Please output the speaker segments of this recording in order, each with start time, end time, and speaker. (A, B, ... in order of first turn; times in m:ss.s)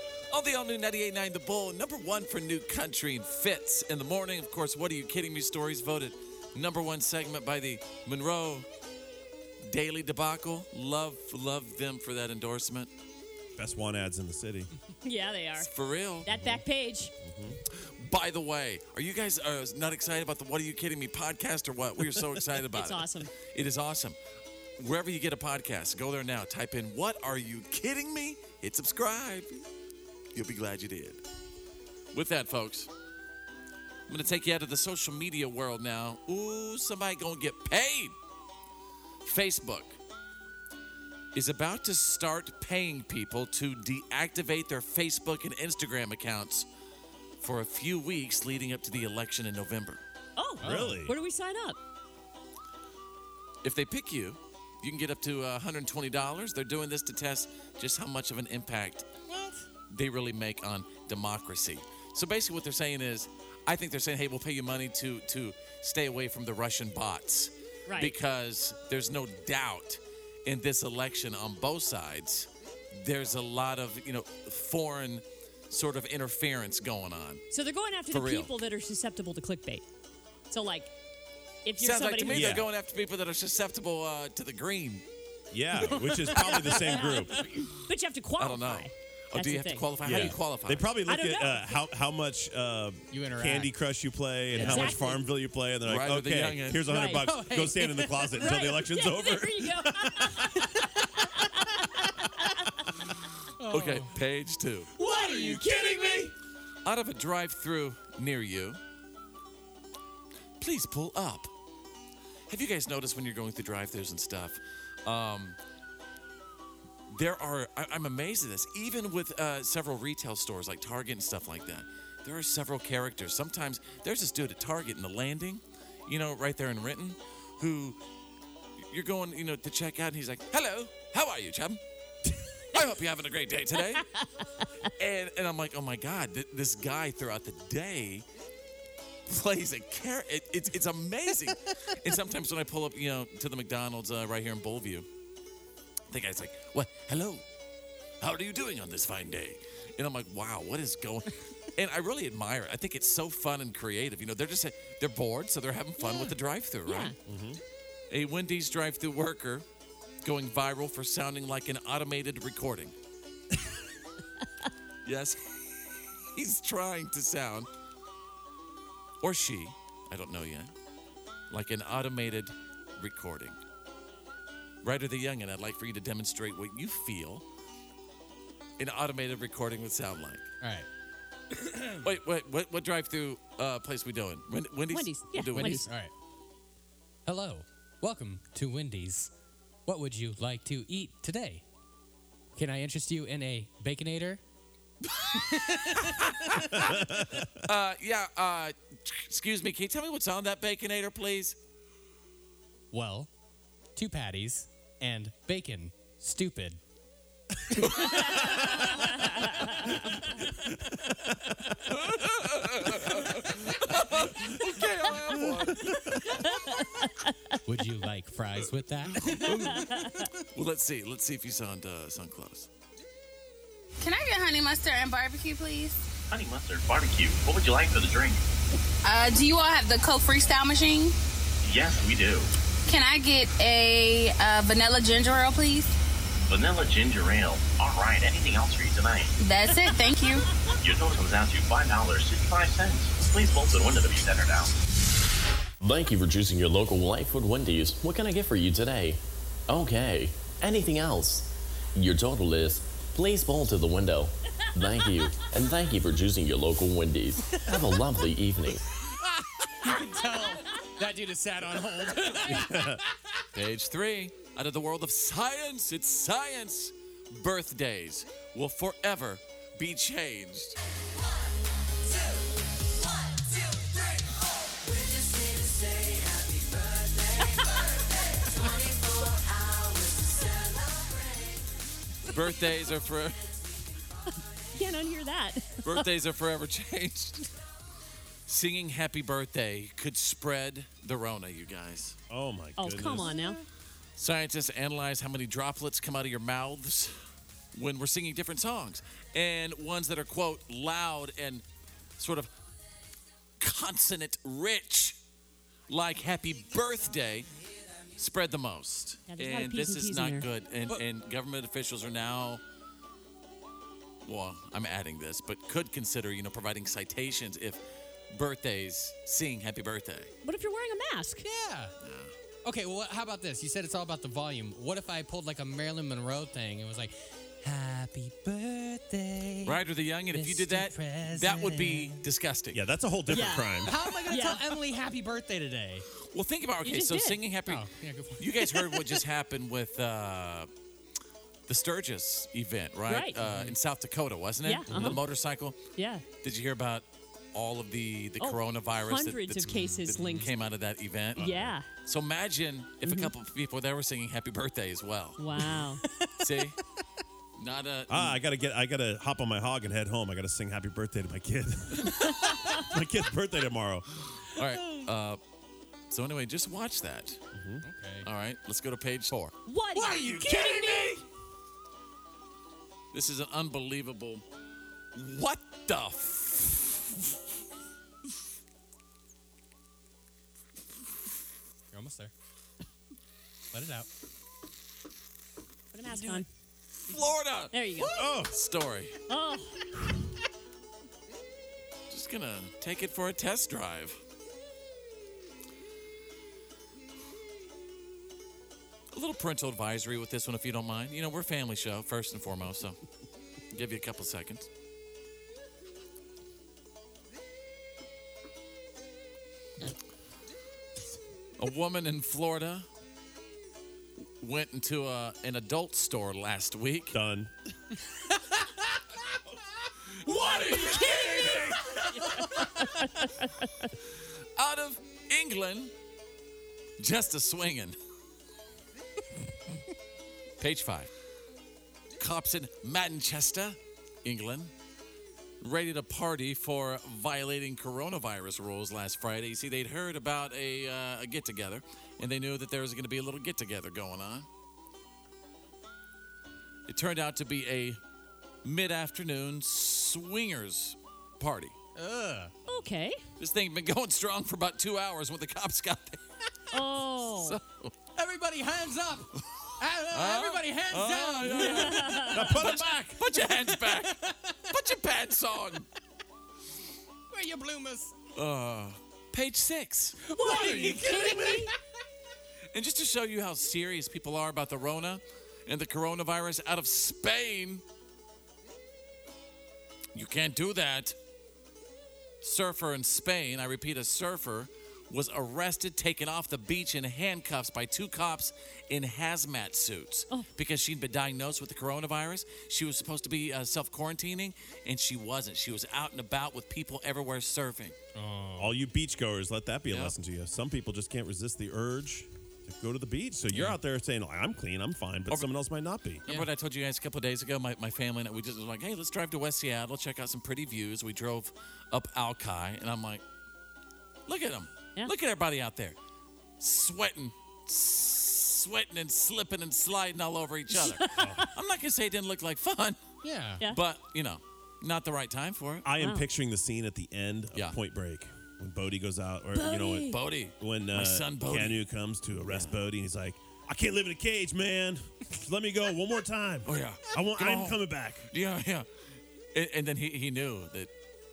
0:00.3-0:08.7 A
0:09.7-0:12.9 A
0:13.6-0:14.7 B
0:15.0-0:15.7 C
0:15.6-0:16.3 A
0:16.2-0:17.1 C
0:16.3-0:16.6 B
0:17.2-0:17.6 B
0:17.7-0:24.2 A
0:22.7-0:23.3 C
0:24.8-0:29.6 A
0:30.3-0:31.2 A
0:32.1-0:32.9 A
0:34.1-0:38.1 A
0:39.2-0:40.0 A
0:41.3-0:46.7 A
0:47.4-0:50.0 A
0:50.4-0:51.8 C
0:50.6-0:51.0 D
0:50.6-0:51.1 B
0:53.6-0:59.1 A
0:59.3-0:59.6 D
0:59.9-1:17.4 A
1:07.9-1:08.2 C
1:17.5-1:19.8 C
1:18.1-1:18.5 A
1:20.5-1:20.9 C
1:21.6-1:22.6 C
1:21.8-1:25.0 A
1:22.3-1:22.6 B
1:25.5-1:27.4 B
1:26.4-1:30.3 C
1:28.4-1:30.9 A
1:30.0-1:40.6 B
1:31.1-1:31.8 C
1:33.1-1:33.7 D
1:34.5-1:34.9 D
1:34.6-1:35.2 C
1:35.8-1:37.0 A
1:36.9-1:37.2 C
1:37.2-1:38.5 D
1:38.4-1:42.6 C
1:40.4-1:41.0 D
1:43.6-1:44.1 D
1:43.6-1:44.9 A
1:45.0-1:46.3 C
1:45.0-1:46.2 B
1:46.8-1:48.8 A
1:50.6-1:51.5 A
1:52.5-1:55.6 A
1:57.1-2:08.0 A
2:08.8-2:11.8 A
2:12.7-2:14.1 A
2:15.0-2:18.2 A
2:19.3-2:25.1 A
2:26.1-2:27.4 A
2:28.2-2:37.1 A
2:36.8-2:37.2 C
2:37.2-2:37.6 B
2:38.1-2:39.6 A
2:40.2-2:42.9 A
2:45.0-2:47.7 A
2:49.2-2:50.7 A
2:51.5-2:53.6 A
2:54.8-2:57.4 A
2:58.8-3:00.4 A
3:00.6-3:00.9 D
3:01.6-3:02.0 D
3:02.0-3:05.8 A
3:04.9-3:05.9 C
3:05.6-3:06.1 D
3:07.2-3:09.3 D
3:09.8-3:11.6 D
3:12.6-3:14.4 D
3:15.1-3:21.6 A
3:15.3-3:16.7 D
3:16.7-3:17.5 B
3:22.9-3:23.3 D
3:24.0-3:26.8 D
3:28.0-3:28.6 C
3:28.1-3:31.5 B
3:31.8-3:36.0 A
3:36.6-3:37.3 C
3:37.6-3:40.3 D
3:39.4-3:39.8 B
3:39.8-3:40.1 C
3:40.5-3:42.7 A
3:44.0-3:46.0 E
3:46.3-3:48.4 F
3:49.0-3:51.1 E
3:51.6-3:52.5 F
3:52.9-3:55.9 E
3:56.4-3:59.3 F
3:59.4-4:00.4 E
4:00.8-4:04.7 F
4:05.8-4:18.8 G
4:17.5-4:17.9 D
4:19.6-4:22.9 D
4:22.4-4:23.0 B
4:23.5-4:30.8 A
4:42.2-4:43.4 A
4:44.7-4:46.1 C
4:45.8-4:47.5 A
4:48.5-4:52.2 A
4:52.3-4:53.4 B
4:52.8-4:53.6 C
4:54.2-4:57.1 A
4:57.7-5:01.6 A
5:02.2-5:02.5 A
5:03.6-5:05.2 A
5:05.9-5:07.5 A
5:08.1-5:12.6 A
5:09.3-5:10.5 C
5:14.2-5:20.3 A
5:20.4-5:21.4 C
5:21.4-5:21.9 D
5:22.0-5:22.3 A
5:22.6-5:32.2 D
5:29.6-5:32.8 A
5:32.7-5:34.0 B
5:33.3-5:34.6 C
5:33.8-5:36.0 D
5:36.2-5:37.8 A
5:36.8-5:37.4 C
5:37.6-5:39.2 D
5:38.4-5:40.7 A
5:41.7-5:45.8 A
5:43.1-5:43.4 C
5:43.4-5:43.8 D
5:44.6-5:45.2 C
5:44.9-5:45.2 B
5:45.9-5:46.2 C
5:46.4-5:51.5 A
5:48.4-5:50.5 C
5:51.3-5:51.8 B
5:51.4-5:51.9 C
5:52.0-5:55.7 A
5:53.0-5:53.3 C
5:55.4-5:56.0 C
5:55.7-5:56.7 D
5:56.4-5:56.8 A
5:57.6-5:58.4 A
5:58.1-6:04.1 B
6:02.4-6:02.8 C
6:04.5-6:05.4 A
6:06.1-6:07.4 A
6:07.5-6:07.8 B
6:07.8-6:08.3 D
6:08.2-6:09.5 A
6:09.6-6:11.2 C
6:10.0-6:11.1 B
6:13.1-6:14.4 A
6:15.1-6:17.2 A
6:21.9-6:22.3 D
6:23.7-6:24.1 D
6:25.9-6:26.5 C
6:26.1-6:26.4 A
6:27.0-6:29.2 A
6:27.1-6:28.4 C
6:28.1-6:28.5 B
6:29.3-6:29.8 C
6:32.1-6:34.2 A
6:39.1-6:43.0 A
6:43.7-6:44.7 A
6:51.6-6:52.9 A
6:54.4-6:57.2 A
6:57.1-6:57.5 B
7:00.0-7:02.9 A
7:02.7-7:03.7 C
7:04.6-7:05.9 A
7:07.0-7:08.0 A
7:10.6-7:11.1 A
7:12.2-7:14.7 A
7:15.6-7:24.5 A
7:26.9-7:28.0 A
7:28.6-7:31.7 A
7:32.0-7:32.5 D
7:32.7-7:33.2 C
7:33.4-7:36.2 A
7:36.7-7:37.6 C
7:36.7-7:37.9 A
7:38.1-7:42.6 D
7:40.1-7:45.9 A
7:41.6-7:42.5 C
7:42.0-7:43.2 B
7:43.5-7:44.5 D
7:47.3-7:48.1 D
7:48.3-7:51.7 A
7:50.2-7:51.7 D
7:51.3-7:51.6 C
7:52.7-7:57.8 A
8:00.1-8:01.2 A
8:02.4-8:18.0 A
8:18.1-8:18.8 D
8:18.6-8:26.2 B
8:19.9-8:20.1 A
8:23.5-8:23.8 D
8:26.2-8:33.2 A
8:34.3-8:36.0 A
8:36.6-8:43.0 A
8:40.7-8:41.4 C
8:41.2-8:41.5 B
8:43.2-8:43.6 D
8:43.7-8:45.8 A
8:45.8-8:58.3 B
8:46.0-8:46.3 C
8:49.5-8:50.1 C
8:50.0-8:51.8 A
8:52.4-8:52.8 A
8:56.6-8:58.9 A
8:59.5-9:00.9 A